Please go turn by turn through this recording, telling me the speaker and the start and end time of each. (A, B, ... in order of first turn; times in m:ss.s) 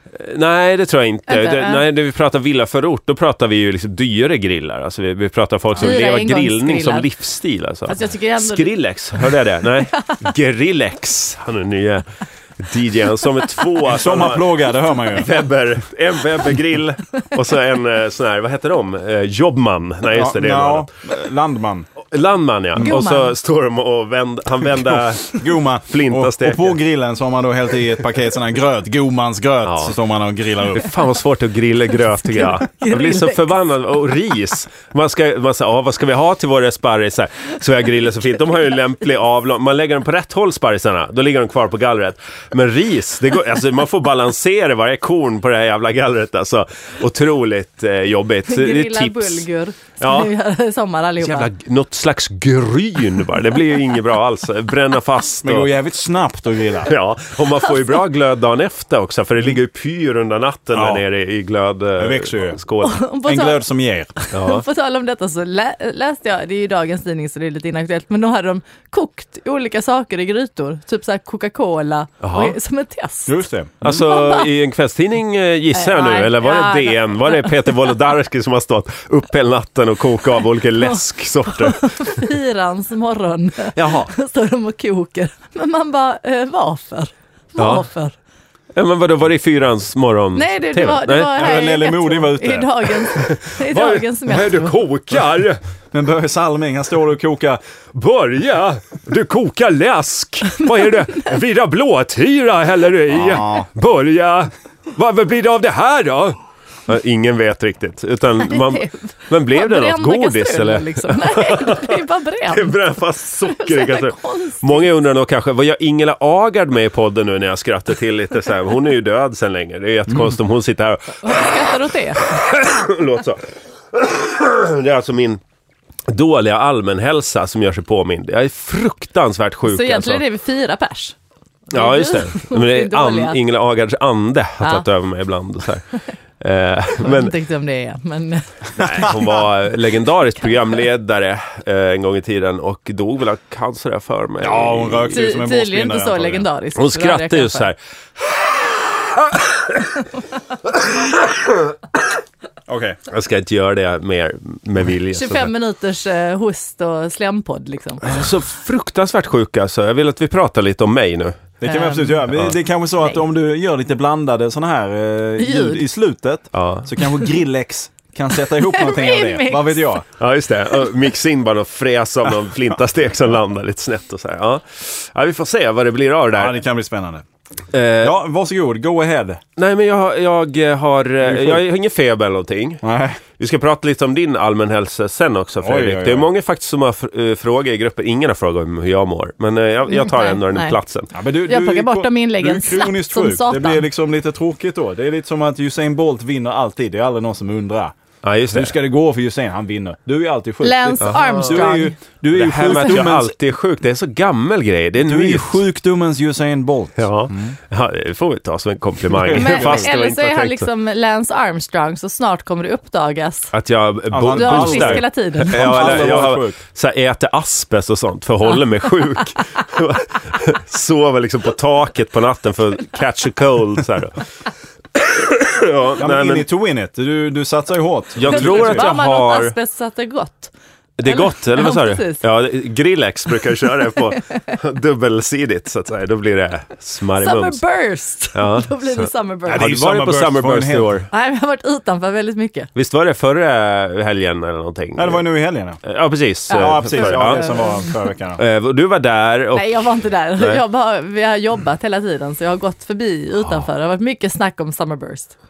0:00.1-0:12.1 A
0:01.3-0:01.8 B
0:05.8-0:07.0 B
0:07.9-0:08.7 B
0:12.6-0:14.5 A
0:13.8-0:15.4 C
0:15.1-0:20.9 A
0:20.1-0:21.9 C
0:22.0-0:26.8 A
0:22.8-0:23.3 B
0:25.3-0:30.9 C
0:29.6-0:30.0 A
0:30.7-0:49.5 A
0:32.3-0:33.4 B
0:48.5-0:51.5 B
0:50.0-0:50.3 A
0:51.2-0:55.7 A
0:55.4-0:56.9 C
0:56.9-1:03.0 A
1:00.7-1:01.0 C
1:02.0-1:02.6 C
1:02.8-1:03.6 B
1:03.2-1:04.1 C
1:04.2-1:14.5 B
1:04.3-1:04.6 A
1:12.2-1:12.6 A
1:13.3-1:13.8 C
1:13.8-1:22.2 A
1:15.7-1:17.7 B
1:20.8-1:28.1 B
1:23.8-1:24.0 A
1:27.6-1:27.9 A
1:28.7-1:31.6 A
1:30.4-1:34.8 B
1:31.3-1:32.9 C
1:33.1-1:35.6 A
1:35.9-1:37.6 C
1:37.9-1:46.4 A
1:43.1-1:43.7 C
1:46.9-2:05.4 A
1:48.5-1:52.8 B
1:53.5-1:54.9 B
2:01.2-2:02.5 B
2:06.1-2:10.2 A
2:09.6-2:11.2 B
2:11.7-2:13.4 B
2:11.7-2:17.3 A
2:14.6-2:14.9 B
2:17.0-2:19.1 B
2:18.8-2:25.2 A
2:24.4-2:26.5 C
2:25.1-2:27.7 B
2:26.8-2:29.9 A
2:30.7-2:31.5 A
2:32.7-2:33.0 C
2:33.1-2:35.5 A
2:35.1-2:38.0 B
2:38.0-2:41.5 A
2:41.6-2:50.1 C
2:41.6-2:42.3 B
2:45.4-2:45.9 B
2:46.5-2:46.9 A
2:48.6-2:50.0 B
2:50.2-2:56.6 A
2:56.3-2:57.2 C
2:57.7-2:58.2 A
2:58.0-2:59.4 C
2:59.6-3:02.8 A
3:01.2-3:01.6 C
3:02.8-3:03.2 C
3:03.4-3:11.1 A
3:05.6-3:06.3 C
3:09.9-3:10.8 B
3:11.1-3:18.0 C
3:11.4-3:13.9 B
3:18.2-3:18.8 A
3:18.5-3:23.3 C
3:20.6-3:22.0 B
3:21.0-3:21.8 A
3:22.3-3:25.6 A
3:25.0-3:27.6 C
3:27.0-3:30.7 A
3:29.2-3:29.9 C
3:29.3-3:33.5 B
3:33.5-3:44.2 A
3:34.1-3:36.6 C
3:34.3-3:36.2 B
3:45.0-3:46.5 A
3:46.0-3:48.9 C
3:48.2-3:49.6 A
3:48.2-3:50.5 B
3:51.0-3:57.6 A
3:51.0-3:52.2 B
3:57.2-3:59.7 B
3:58.4-4:01.1 A
3:59.5-4:00.9 C
4:01.1-4:02.7 B
4:02.8-4:05.2 A
4:05.0-4:05.8 C
4:05.8-4:07.6 A
4:06.5-4:07.9 B
4:06.5-4:08.4 C
4:08.4-4:09.9 A
4:09.5-4:15.4 B